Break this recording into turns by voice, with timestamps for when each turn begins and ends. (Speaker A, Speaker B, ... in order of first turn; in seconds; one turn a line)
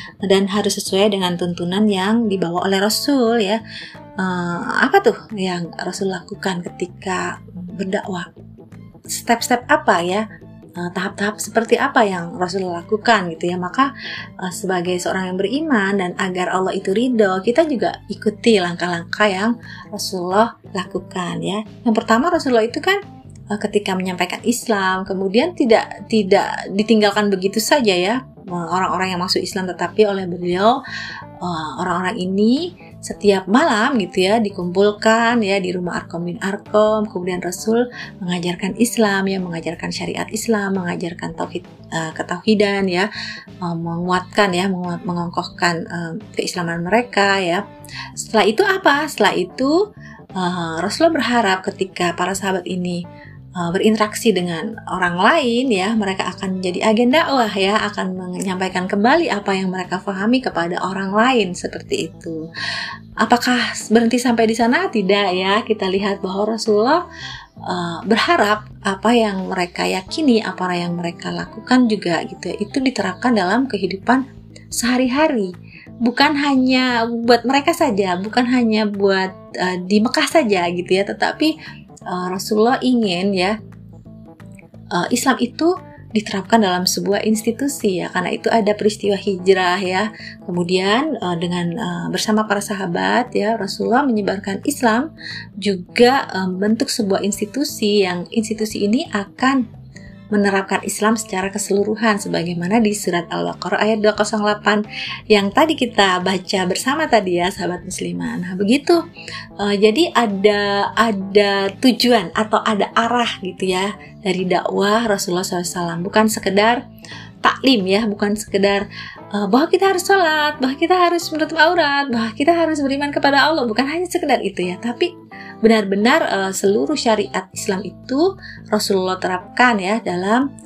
Speaker A: 0.2-3.6
Speaker A: 4.2-8.3
Speaker A: 9.1-10.2
Speaker A: 10.8-13.9
Speaker A: 14.4-23.0
Speaker A: 23.5-30.8
Speaker A: 31.4-43.1
Speaker A: 43.6-47.6
Speaker A: 48.2-49.7
Speaker A: 50.4-53.0
Speaker A: 53.6-62.4
Speaker A: 63.2-67.0
Speaker A: 67.7-74.2
Speaker A: 74.7-81.5
Speaker A: 82.1-83.5
Speaker A: 84.9-95.1
Speaker A: 95.6-99.6
Speaker A: 100.3-109.0
Speaker A: 109.6-116.8
Speaker A: 117.4-125.1
Speaker A: 125.6-130.5